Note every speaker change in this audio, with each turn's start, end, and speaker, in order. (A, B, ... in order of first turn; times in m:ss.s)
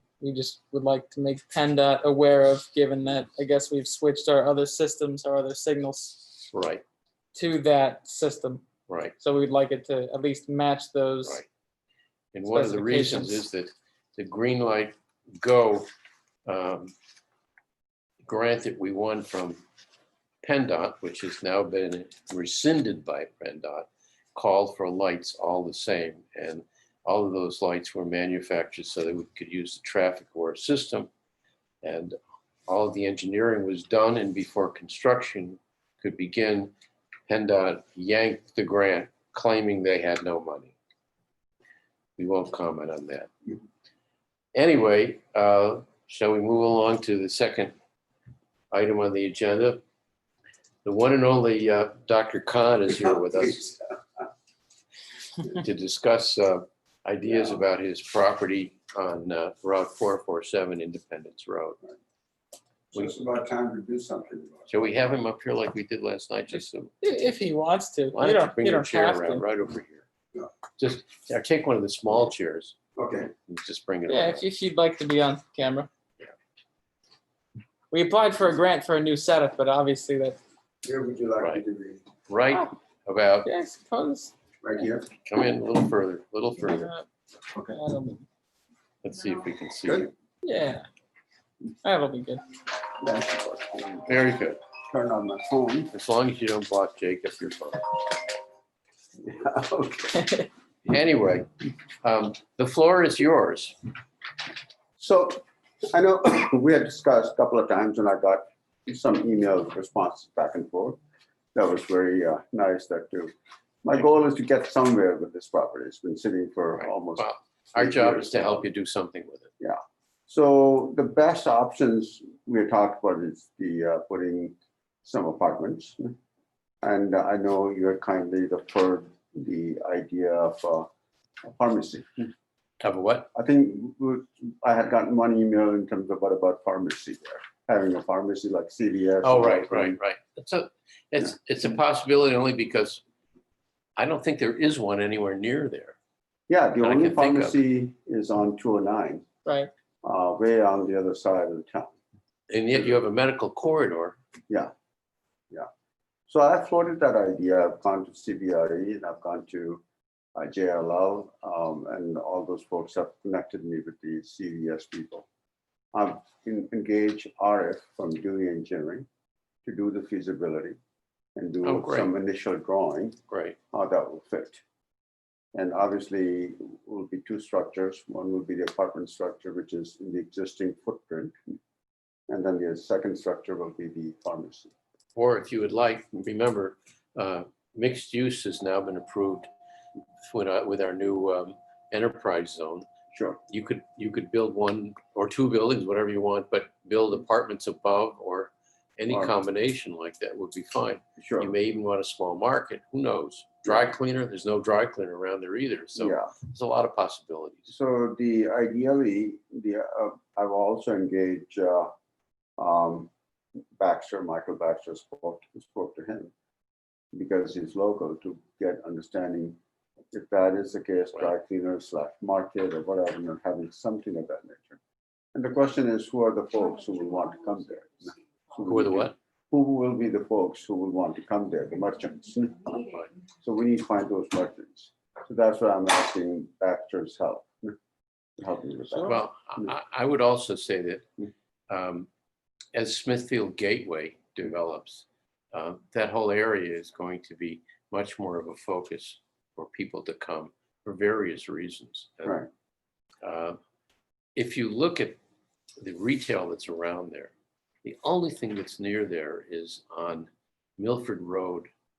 0:00.2-0:06.4 A
0:06.5-0:06.8 B
0:07.3-0:08.6 A
0:08.9-0:09.1 B
0:09.2-0:11.4 A
0:12.3-0:15.9 B
0:12.5-0:13.4 A
0:16.4-0:16.9 B
0:18.2-0:19.6 B
0:20.4-0:31.1 B
0:31.8-0:32.2 B
0:32.7-0:36.7 B
0:37.3-0:40.7 B
0:42.2-0:43.3 B
0:44.5-0:47.7 B
0:48.7-0:49.8 B
0:50.8-0:53.8 B
0:55.4-1:01.8 B
1:02.9-1:04.9 C
1:04.7-1:07.0 B
1:07.0-1:09.4 A
1:08.1-1:10.0 B
1:10.8-1:12.7 B
1:13.0-1:13.3 C
1:13.4-1:14.4 B
1:14.1-1:15.9 A
1:17.9-1:20.4 A
1:20.8-1:22.0 C
1:22.3-1:23.5 B
1:23.4-1:24.3 A
1:24.6-1:25.1 C
1:25.2-1:26.9 B
1:26.6-1:28.2 A
1:29.0-1:30.1 B
1:30.4-1:30.8 A
1:31.8-1:32.4 A
1:33.0-1:34.2 C
1:34.1-1:34.6 B
1:34.9-1:35.9 C
1:35.9-1:38.1 B
1:39.2-1:40.4 C
1:40.8-1:41.5 B
1:42.0-1:43.8 B
1:45.0-1:51.0 C
1:51.5-1:58.6 C
1:56.8-1:59.5 B
1:59.6-2:06.1 C
2:06.8-2:10.9 C
2:11.4-2:12.3 C
2:12.8-2:13.3 B
2:13.3-2:20.0 C
2:19.2-2:23.0 B
2:24.0-2:26.0 B
2:26.5-2:29.2 C
2:26.8-2:27.6 B
2:29.4-2:29.7 A
2:30.0-2:31.9 C
2:32.5-2:34.2 B
2:36.3-2:39.8 C
2:40.4-2:45.3 C
2:45.9-2:49.0 C
2:49.6-2:50.8 C
2:51.3-2:53.2 C
2:51.6-2:52.1 B
2:53.3-2:53.6 B
2:53.7-2:54.6 C
2:55.5-3:01.3 C
3:02.3-3:04.7 C
3:05.1-3:09.5 B
3:10.3-3:12.9 B
3:13.1-3:13.4 C
3:13.5-3:27.7 B
3:19.1-3:19.3 C
3:21.2-3:21.5 C
3:26.0-3:26.3 C
3:27.7-3:31.9 C
3:32.6-3:33.1 C
3:33.8-3:36.3 C
3:37.1-3:39.6 C
3:40.1-3:44.8 C
3:45.3-3:57.7 C
3:48.6-3:49.1 B
3:58.4-3:59.7 C
3:59.0-4:01.1 B
4:01.7-4:02.1 B
4:02.7-4:12.4 B
4:13.2-4:13.6 B
4:14.4-4:15.2 B
4:15.8-4:17.3 B
4:17.8-4:21.7 B